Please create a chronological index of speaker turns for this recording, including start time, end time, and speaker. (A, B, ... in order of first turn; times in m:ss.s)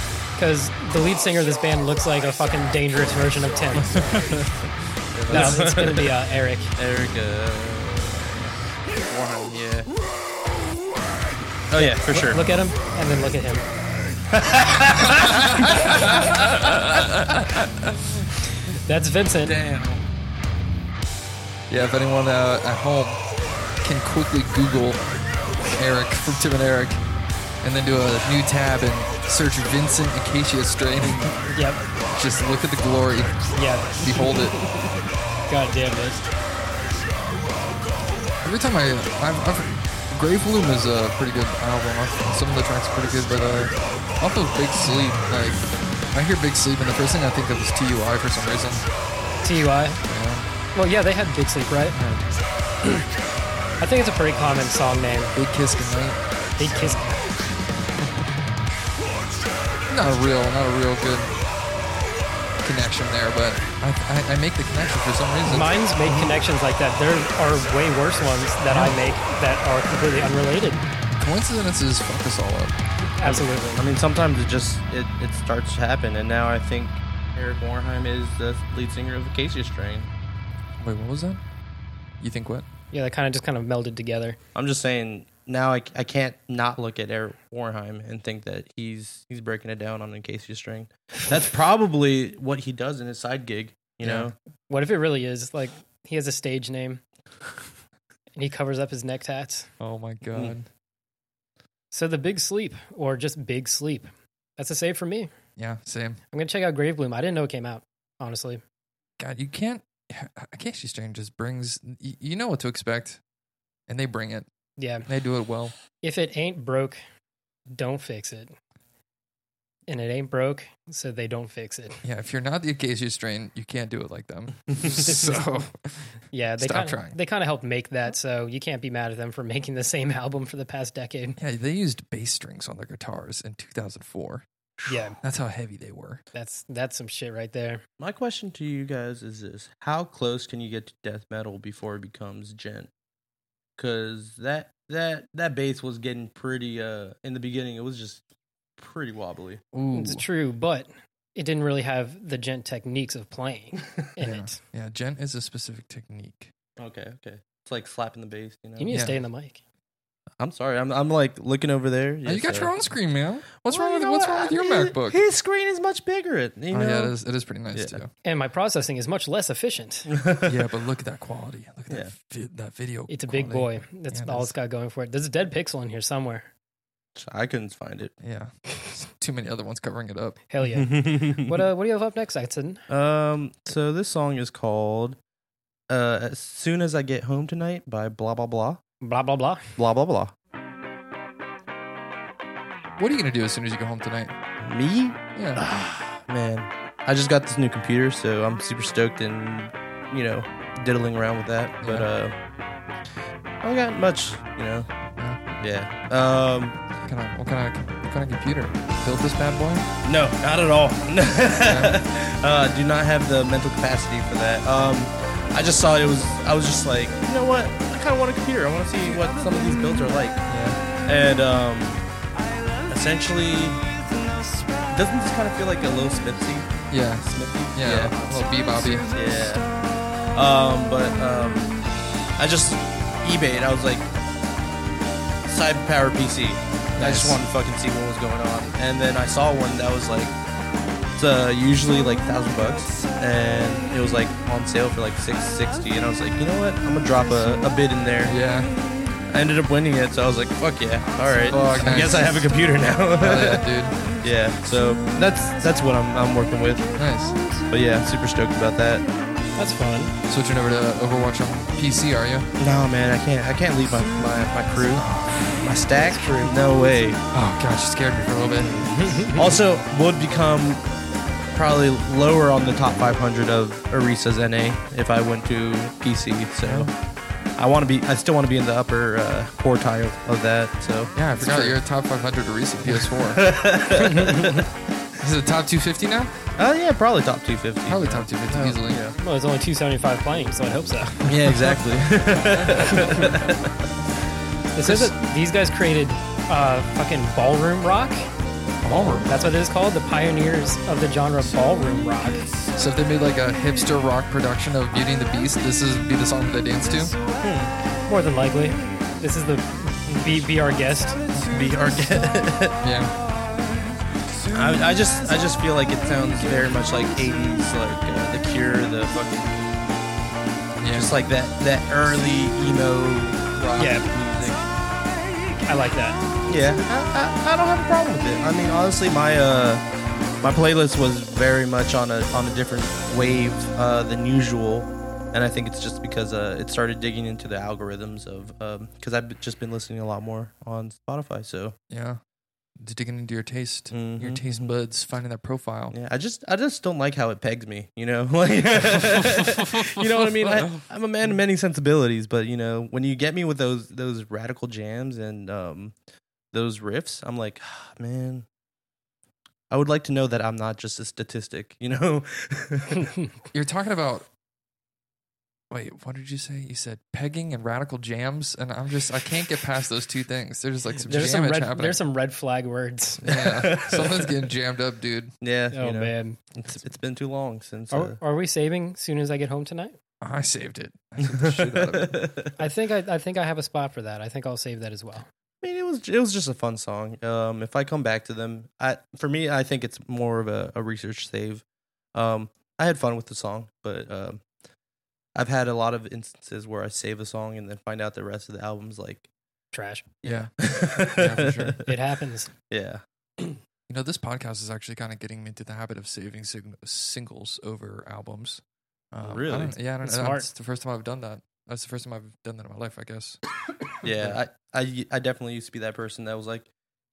0:00.4-0:04.0 A
0:03.9-0:04.2 B
0:03.9-0:04.4 C
0:05.1-0:06.1 C
0:05.3-0:05.7 B
0:05.3-0:06.7 A
0:06.8-0:08.5 C
0:09.0-0:09.9 C
0:11.7-0:12.4 C
0:11.7-0:13.6 A
0:14.3-0:16.1 C
0:15.6-0:17.9 B
0:18.8-0:19.6 A
0:19.4-0:20.0 C
0:21.7-0:23.2 B
0:23.8-0:25.0 B
0:25.7-0:27.0 B
0:27.6-0:31.4 B
0:31.5-0:31.8 A
0:32.1-0:34.6 B
0:33.5-0:34.3 A
0:35.5-0:36.2 A
0:38.4-0:48.8 B
0:49.4-0:50.0 A
0:50.1-0:50.5 B
0:50.7-0:52.0 A
0:51.9-0:52.3 B
0:53.8-0:55.3 A
0:55.3-0:57.1 B
0:56.6-0:57.2 A
0:59.9-1:01.3 B
1:02.6-1:06.3 B
1:05.4-1:10.8 A
1:08.7-1:09.0 B
1:11.1-1:13.4 B
1:13.2-1:13.8 A
1:13.8-1:20.1 C
1:20.8-1:21.4 B
1:22.2-1:22.6 B
1:22.9-1:24.4 A
1:24.5-1:34.3 C
1:34.0-1:34.3 B
1:34.7-1:37.0 A
1:38.4-1:39.7 A
1:39.8-1:40.7 B
1:41.9-1:45.3 A
1:45.6-1:46.2 B
1:46.3-1:48.6 A
1:49.2-1:53.2 B
1:53.9-1:54.5 B
1:54.8-1:55.0 A
1:55.0-1:55.7 B
1:56.0-1:57.0 A
1:57.7-1:58.5 A
1:59.9-2:02.0 A
2:02.0-2:07.2 B
2:05.0-2:05.4 A
2:06.3-2:11.4 A
2:11.4-2:14.4 B
2:14.9-2:15.2 A
2:15.2-2:16.2 B
2:16.3-2:17.8 A
2:18.0-2:22.9 C
2:23.8-2:28.2 C
2:28.8-2:29.6 C
2:29.7-2:30.2 B
2:29.9-2:34.6 A
2:34.2-2:36.5 B
2:36.8-2:39.0 C
2:38.8-2:39.6 A
2:38.9-2:39.2 B
2:40.4-2:42.7 C
2:42.2-2:45.2 B
2:43.7-2:47.1 C
2:46.7-2:48.1 B
2:47.7-2:48.0 C
2:48.2-2:50.1 A
2:50.1-2:50.6 C
2:50.4-2:54.5 B
2:53.1-2:56.5 A
2:57.2-2:58.1 C
2:58.2-3:00.4 B
3:00.5-3:02.8 A
3:00.7-3:01.6 C
3:02.9-3:05.2 C
3:05.9-3:08.8 C
3:09.0-3:09.7 A
3:09.8-3:10.3 C
3:13.0-3:14.3 B
3:14.6-3:22.3 C
3:15.4-3:15.6 B
3:21.8-3:22.1 B
3:23.6-3:24.9 C
3:25.6-3:26.8 C
3:27.0-3:29.8 B
3:30.0-3:40.4 C
3:31.6-3:32.0 B
3:40.5-3:40.8 B
3:41.0-3:42.0 C
3:42.9-3:43.8 C
3:44.9-3:49.7 C
3:46.9-3:49.5 B
3:50.3-3:51.8 C
3:52.4-3:54.1 C
3:55.4-4:00.4 C
3:57.0-3:57.4 B
4:01.2-4:08.4 C
4:08.2-4:08.7 B
4:09.3-4:13.6 C
4:11.5-4:12.5 B
4:13.2-4:14.0 B
4:14.2-4:16.9 C
4:17.0-4:17.4 B
4:17.7-4:19.0 C
4:19.6-4:20.1 A
4:20.3-4:22.5 B
4:22.6-4:25.1 C
4:24.9-4:25.6 B
4:25.6-4:27.2 C
4:26.0-4:26.5 A
4:27.3-4:29.2 B
4:28.9-4:29.4 A
4:29.3-4:30.8 C
4:31.5-4:36.9 C
4:36.6-4:36.9 B
4:37.6-4:41.8 C
4:41.1-4:43.4 B
4:42.9-4:44.7 C
4:44.0-4:44.6 A
4:45.2-4:46.3 B
4:46.6-4:49.1 C
4:47.9-4:49.0 B
4:49.2-4:51.4 A
4:51.3-4:53.6 C
4:54.7-4:58.2 A
4:54.8-4:55.1 B
4:58.8-4:59.5 B
4:58.9-4:59.2 C
4:59.2-5:02.5 A
5:02.8-5:07.1 B
5:07.4-5:07.7 C
5:08.1-5:11.2 A
5:10.1-5:10.3 C
5:11.3-5:11.7 B
5:11.5-5:12.8 C
5:12.8-5:13.1 B
5:14.5-5:19.6 C
5:20.8-5:21.2 B
5:20.9-5:24.6 C
5:23.8-5:24.1 A
5:25.6-5:26.2 A
5:26.5-5:29.8 C
5:30.4-5:41.8 C
5:41.9-5:42.2 B
5:42.8-5:46.0 B
5:43.9-5:44.7 C
5:45.9-5:55.9 C
5:48.7-5:50.8 B
5:56.5-5:58.4 C
5:59.7-6:03.1 C
6:03.5-6:04.3 B
6:05.7-6:12.0 B
6:11.0-6:13.2 A
6:13.2-6:15.3 B
6:13.2-6:14.3 C
6:15.4-6:18.2 C
6:15.7-6:16.4 A
6:17.9-6:19.9 A
6:20.2-6:22.2 B
6:21.2-6:22.5 C
6:22.6-6:25.3 A
6:25.6-6:31.6 C
6:32.1-6:34.4 C
6:35.3-6:39.2 C
6:39.7-6:40.1 A
6:40.2-6:41.9 C
6:40.2-6:40.5 B
6:41.1-6:41.8 B
6:41.8-6:42.5 A
6:42.7-6:43.6 C
6:43.9-6:53.4 B
6:49.2-6:49.7 C
6:50.0-6:50.5 A
6:54.0-6:56.7 C
6:54.1-6:54.4 B